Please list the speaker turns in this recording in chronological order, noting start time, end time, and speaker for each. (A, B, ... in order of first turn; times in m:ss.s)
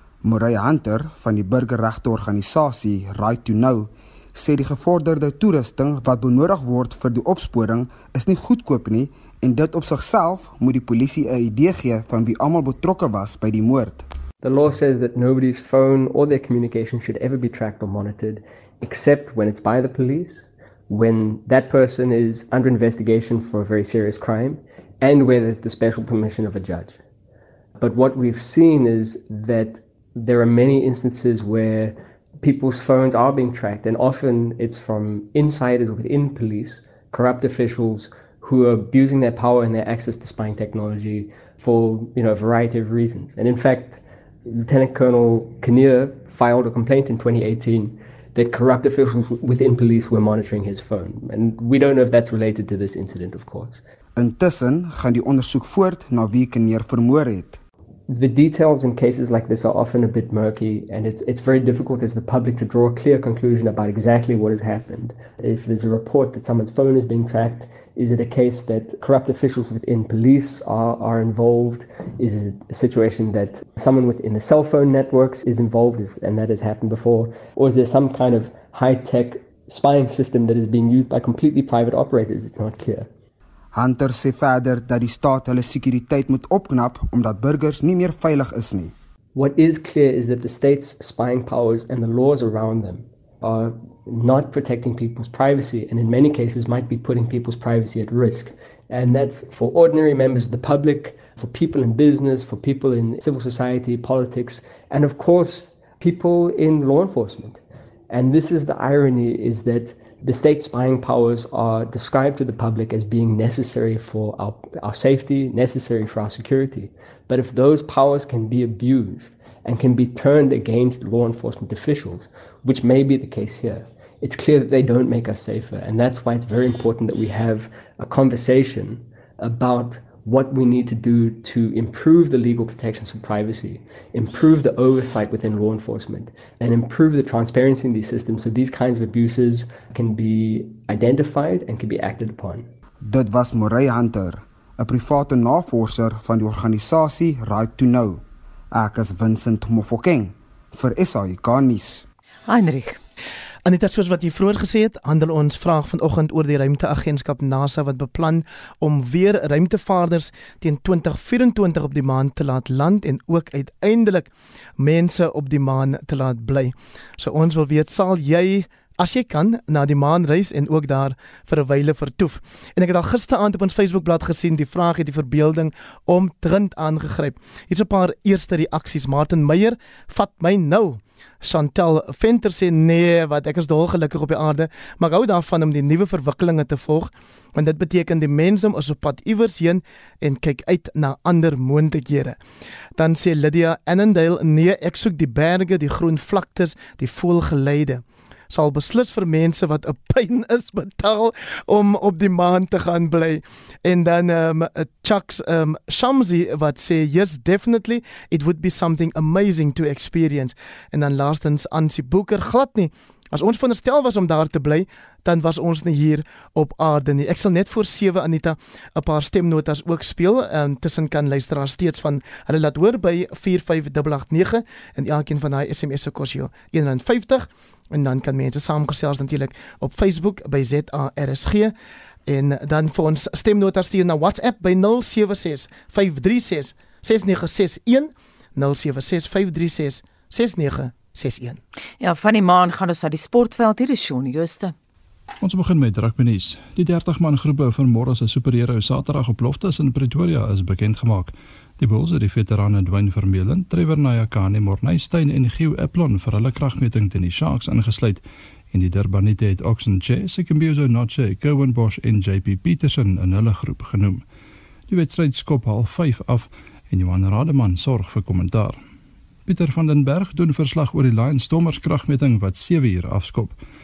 0:00.2-0:14.1 A
0:14.4-0:27.0 B
0:27.8-0:53.8 B
0:54.2-0:57.6 A
0:58.1-1:23.1 B
1:23.7-1:28.9 A
1:29.4-2:22.7 B
2:23.0-2:32.0 A
2:32.5-2:33.0 C
2:33.7-3:12.4 D
3:13.0-3:51.7 D
3:52.3-4:01.6 D
4:02.0-4:04.8 C
4:05.4-4:24.2 E
4:24.9-4:28.8 E
4:29.5-4:33.6 E